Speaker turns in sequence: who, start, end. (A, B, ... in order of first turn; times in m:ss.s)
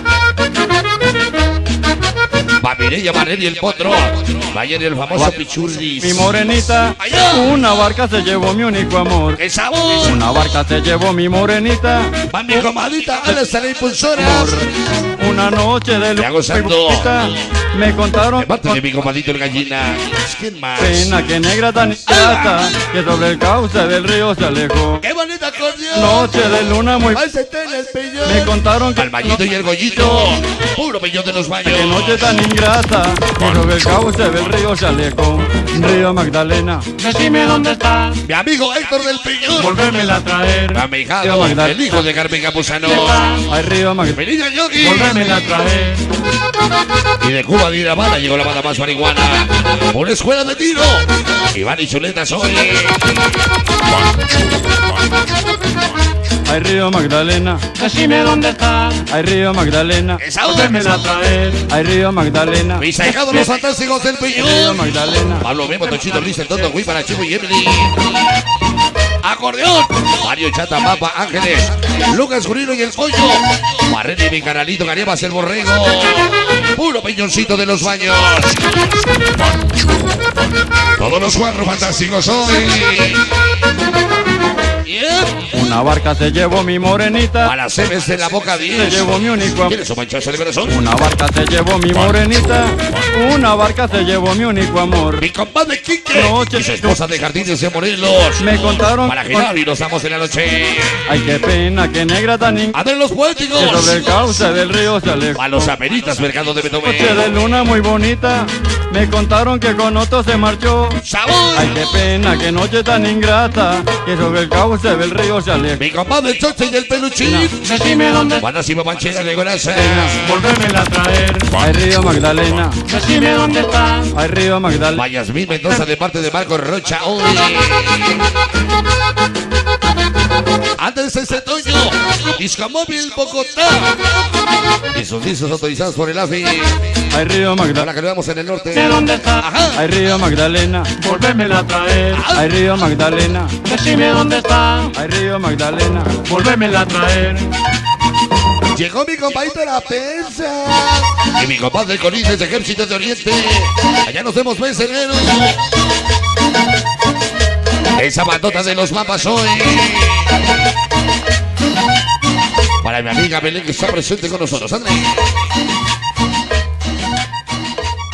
0:02.6-0:06.3 A
0:06.0-0:09.4 B
0:07.0-0:07.6 A
0:09.4-0:10.2 A
0:10.0-0:12.2 B
0:12.3-0:14.7 A
0:14.1-0:18.8 B
0:16.2-0:17.3 A
0:18.4-0:21.1 A
0:20.8-0:25.0 B
0:22.1-0:22.8 A
0:25.0-0:26.4 A
0:25.9-0:27.2 B
0:27.1-0:32.3 A
0:28.2-0:29.2 B
0:31.6-0:36.9 B
0:37.0-0:38.2 C
0:38.2-0:39.8 A
0:39.6-0:40.8 C
0:40.7-0:43.5 A
0:41.2-0:42.0 B
0:42.9-0:43.4 C
0:43.5-0:44.2 B
0:44.0-0:45.2 A
0:44.8-0:46.1 C
0:47.2-0:53.1 A
0:56.4-0:57.7 B
0:57.7-0:59.0 C
0:59.0-1:00.2 B
1:00.2-1:00.9 A
1:00.4-1:01.6 C
1:01.7-1:02.8 B
1:02.8-1:08.4 A
1:04.3-1:05.4 B
1:09.2-1:18.8 A
1:21.0-1:23.3 A
1:24.8-1:25.5 A
1:25.5-1:27.5 B
1:27.4-1:30.8 A
1:28.8-1:29.8 B
1:30.7-1:35.2 B
1:35.2-1:41.1 A
1:36.1-1:37.0 B
1:38.4-1:39.5 B
1:41.1-1:42.8 B
1:42.7-1:44.4 A
1:43.6-1:45.5 B
1:45.3-1:47.2 A
1:46.8-1:51.0 B
1:51.0-1:51.8 A
1:51.5-1:55.8 B
1:55.8-1:57.7 A
1:57.2-1:57.5 B
1:57.6-1:58.4 C
1:58.4-2:00.2 A
1:59.7-2:00.2 B
2:00.2-2:01.5 C
2:01.6-2:02.8 B
2:02.8-2:04.1 C
2:04.1-2:05.0 B
2:04.9-2:08.2 A
2:10.8-2:14.1 A
2:14.9-2:16.8 A
2:17.1-2:17.9 B
2:17.7-2:19.8 A
2:18.7-2:19.4 C
2:19.7-2:21.0 B
2:21.0-2:22.2 C
2:22.1-2:22.5 A
2:22.3-2:23.6 B
2:23.6-2:24.9 C
2:24.9-2:26.2 B
2:26.2-2:27.5 C
2:28.7-2:35.6 A
2:38.0-2:40.4 A
2:42.8-2:45.2 A